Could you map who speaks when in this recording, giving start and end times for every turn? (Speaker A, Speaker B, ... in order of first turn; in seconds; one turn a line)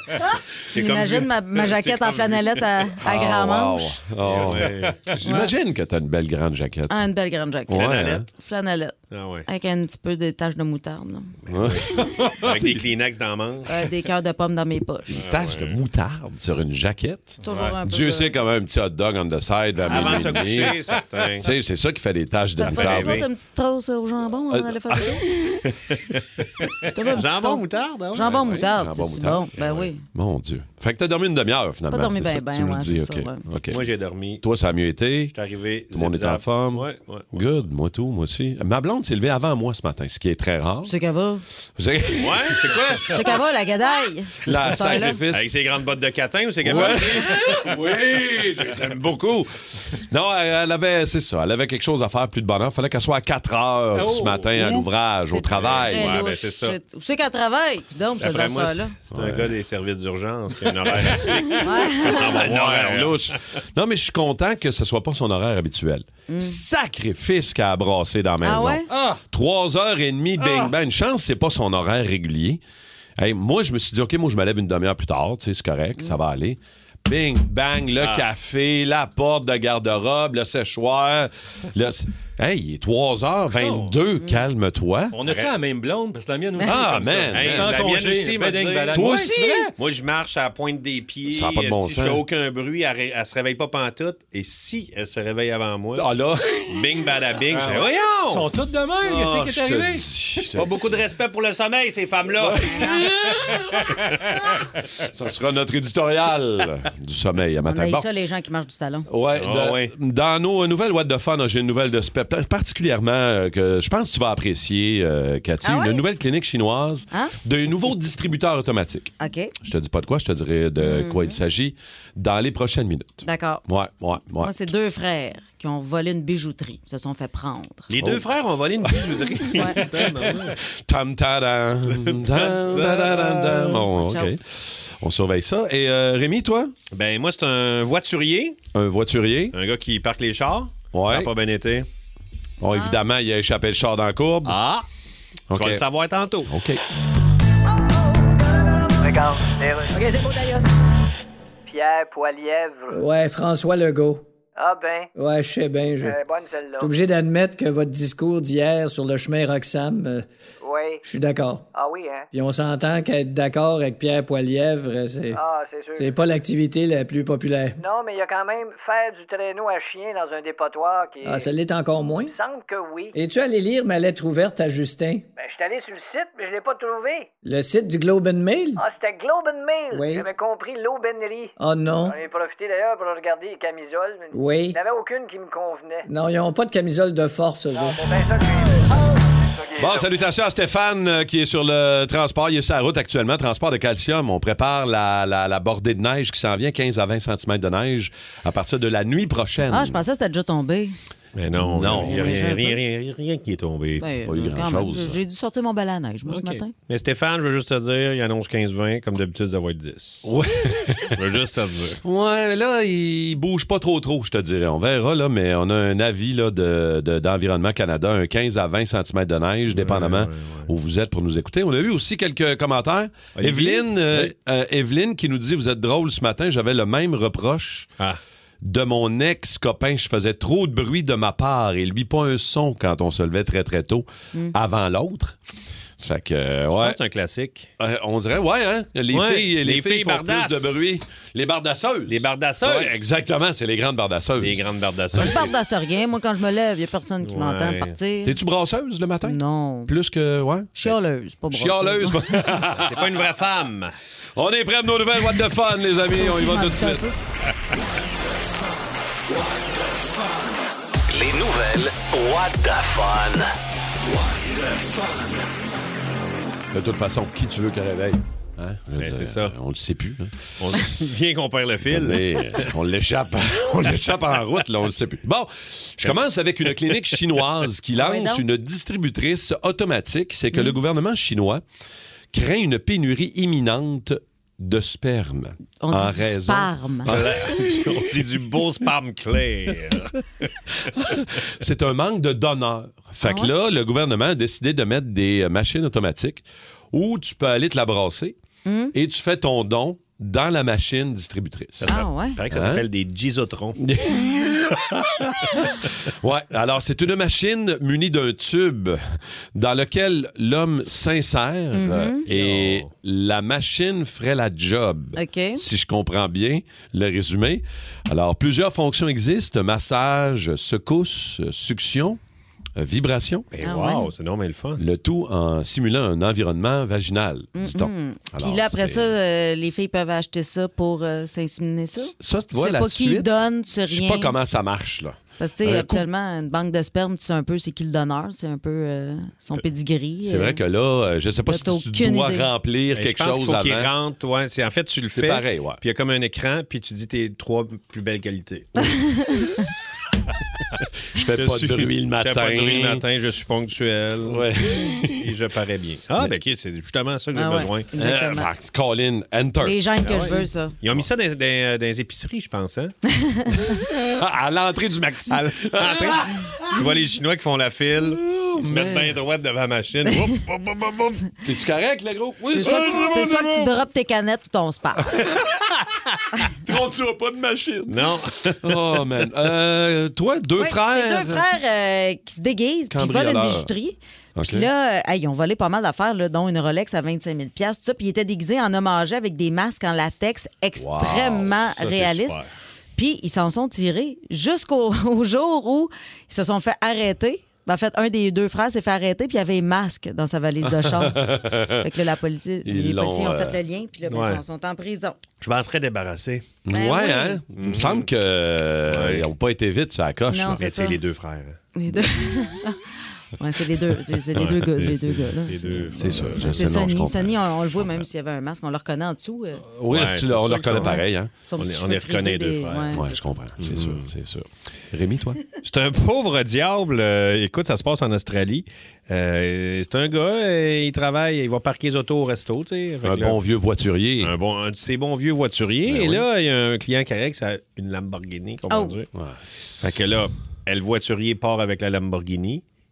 Speaker A: 0.7-2.9
Speaker B: 0.7-4.0
Speaker C: 3.0-7.0
Speaker A: 4.2-5.2
Speaker B: 5.2-5.5
Speaker B: 6.9-8.9
Speaker C: 7.7-8.2
Speaker A: 7.7-8.2
Speaker A: 9.1-9.5
Speaker B: 9.5-11.3
Speaker A: 11.5-13.8
Speaker C: 11.5-12.0
Speaker D: 12.1-12.4
Speaker B: 13.7-15.2
Speaker C: 15.1-20.8
Speaker A: 15.2-15.8
Speaker B: 17.4-18.4
Speaker D: 17.5-17.8
Speaker A: 19.8-21.5
Speaker B: 19.9-20.4
Speaker C: 21.4-23.2
Speaker B: 22.6-25.2
Speaker A: 22.6-23.3
Speaker C: 24.5-25.1
Speaker A: 25.6-28.5
Speaker B: 26.9-30.0
Speaker C: 28.2-33.9
Speaker A: 29.6-29.9
Speaker B: 31.9-33.4
Speaker A: 33.7-34.4
Speaker C: 34.4-35.4
Speaker A: 35.3-37.3
Speaker C: 35.9-40.9
Speaker B: 40.9-41.4
Speaker C: 41.8-43.0
Speaker A: 42.2-43.2
Speaker B: 43.1-45.2
Speaker C: 44.5-45.5
Speaker A: 45.3-47.4
Speaker C: 46.6-56.2
Speaker D: 54.0-54.7
Speaker B: 55.3-59.0
Speaker A: 55.6-56.8
Speaker A: 58.2-63.4
Speaker C: 59.1-59.5
Speaker C: 61.0-61.5
Speaker B: 61.6-62.4
Speaker C: 62.0-72.6
Speaker B: 66.3-66.6
Speaker B: 68.4-68.9
Speaker D: 68.9-69.2
Speaker D: 70.4-70.7
Speaker C: 73.2-85.2
Speaker A: 78.0-78.3
Speaker D: 83.5-84.0
Speaker D: 85.1-89.7
Speaker C: 86.6-87.8
Speaker A: 87.1-96.1
Speaker C: 88.9-89.6
Speaker C: 91.3-92.2
Speaker C: 96.0-97.1
Speaker A: 96.7-98.5
Speaker D: 97.5-100.1
Speaker C: 99.0-100.9
Speaker A: 100.5-103.0
Speaker C: 102.4-103.8
Speaker C: 105.1-108.1
Speaker B: 107.7-109.1
Speaker C: 109.1-124.5
Speaker A: 109.3-109.9
Speaker B: 115.6-116.0
Speaker B: 119.2-119.5
Speaker B: 120.8-121.4
Speaker B: 123.2-123.6
Speaker B: 124.4-127.9
Speaker A: 127.9-130.6
Speaker C: 128.0-128.2
Speaker C: 129.8-136.7
Speaker A: 132.0-133.8
Speaker B: 133.1-134.3
Speaker A: 136.9-138.6
Speaker C: 138.8-139.6
Speaker A: 139.5-141.9
Speaker C: 140.9-141.3
Speaker C: 142.6-144.6
Speaker B: 142.7-143.0
Speaker A: 144.5-144.9
Speaker C: 145.5-145.8
Speaker A: 145.5-146.5
Speaker C: 146.5-146.8
Speaker E: 149.0-150.6
Speaker F: 149.9-150.6
Speaker E: 151.7-153.0
Speaker F: 152.9-154.2
Speaker E: 154.6-155.1
Speaker F: 155.2-156.2
Speaker E: 156.0-156.9
Speaker F: 156.8-160.3
Speaker E: 160.6-161.1
Speaker F: 161.1-161.7
Speaker E: 161.7-162.3
Speaker F: 162.3-165.4
Speaker E: 165.3-166.2
Speaker F: 166.0-167.8
Speaker E: 167.8-171.5
Speaker F: 171.2-172.3
Speaker E: 172.2-173.2
Speaker F: 173.2-175.3
Speaker E: 175.4-177.3
Speaker F: 177.4-178.8
Speaker E: 178.8-186.1
Speaker F: 179.9-180.3
Speaker F: 181.6-182.2
Speaker F: 184.3-184.8
Speaker F: 186.1-188.0
Speaker E: 187.7-190.1
Speaker C: 189.8-200.0
Speaker B: 199.7-201.0
Speaker A: 201.3-204.1
Speaker C: 201.6-202.6
Speaker B: 201.8-202.8
Speaker B: 204.0-206.7
Speaker C: 204.3-205.2
Speaker A: 206.3-210.4
Speaker C: 210.2-211.2
Speaker A: 211.1-212.0
Speaker C: 212.0-227.9
Speaker A: 219.7-220.7
Speaker A: 223.3-224.3
Speaker C: 228.6-235.4
Speaker C: 236.0-237.0
Speaker A: 236.7-237.7
Speaker C: 237.8-244.7
Speaker A: 239.1-241.0
Speaker A: 242.1-242.9
Speaker A: 244.4-245.5
Speaker B: 245.2-248.3
Speaker C: 245.2-245.5
Speaker A: 247.2-248.0
Speaker C: 248.2-250.9
Speaker B: 249.2-249.9
Speaker B: 250.8-252.2
Speaker C: 251.5-253.1
Speaker A: 252.8-253.9
Speaker C: 254.4-257.1
Speaker B: 256.1-257.2
Speaker G: 261.1-263.5
Speaker C: 266.7-270.3
Speaker A: 269.0-269.5
Speaker A: 270.6-272.7
Speaker C: 271.9-281.6
Speaker A: 276.0-277.4
Speaker B: 278.0-278.4
Speaker C: 282.3-288.0
Speaker B: 285.8-287.2
Speaker A: 287.1-290.5
Speaker C: 290.9-298.4
Speaker B: 293.2-293.5
Speaker B: 298.6-298.9
Speaker C: 298.9-302.0
Speaker A: 301.8-303.8
Speaker B: 301.9-302.4
Speaker C: 302.5-302.8
Speaker C: 303.8-309.0
Speaker C: 309.6-322.2
Speaker B: 311.7-312.2
Speaker A: 312.3-312.9
Speaker B: 315.1-315.6
Speaker C: 322.8-323.5
Speaker A: 323.5-324.8
Speaker B: 323.6-324.1
Speaker C: 324.8-329.1
Speaker B: 327.6-334.4
Speaker C: 332.0-336.1
Speaker B: 335.4-340.6
Speaker C: 340.2-343.9
Speaker B: 341.5-342.5
Speaker A: 342.9-349.0
Speaker C: 345.1-345.8
Speaker B: 349.2-349.6
Speaker C: 351.1-353.0
Speaker A: 351.2-358.4
Speaker C: 354.3-355.3
Speaker B: 357.4-358.5
Speaker C: 358.0-360.3
Speaker B: 359.6-360.8
Speaker A: 360.0-363.0
Speaker C: 363.9-366.3
Speaker A: 365.3-371.3
Speaker C: 368.3-369.2
Speaker C: 371.4-373.7
Speaker B: 372.6-375.2
Speaker C: 376.6-378.0
Speaker A: 377.9-378.6
Speaker C: 378.6-381.4
Speaker B: 380.6-392.4
Speaker C: 382.9-383.7
Speaker C: 384.4-384.7
Speaker C: 390.8-392.1
Speaker A: 391.8-392.4
Speaker B: 392.9-401.2
Speaker C: 400.6-401.9
Speaker B: 401.8-405.2
Speaker C: 402.6-403.6
Speaker A: 404.1-404.4
Speaker A: 405.4-406.5
Speaker C: 406.7-410.6
Speaker B: 406.7-407.4
Speaker A: 407.5-408.1
Speaker A: 408.9-409.3
Speaker B: 410.3-411.0
Speaker A: 410.5-411.6
Speaker B: 411.8-412.9
Speaker B: 413.4-419.6
Speaker A: 414.3-416.7
Speaker C: 416.0-418.0
Speaker C: 419.7-421.3
Speaker A: 419.9-420.9
Speaker B: 420.7-423.4
Speaker A: 421.6-423.0
Speaker C: 422.9-425.4
Speaker A: 423.6-424.1
Speaker A: 425.6-433.4
Speaker C: 433.0-434.4
Speaker A: 434.2-439.1
Speaker C: 435.9-436.2
Speaker C: 439.1-439.9
Speaker A: 439.8-442.6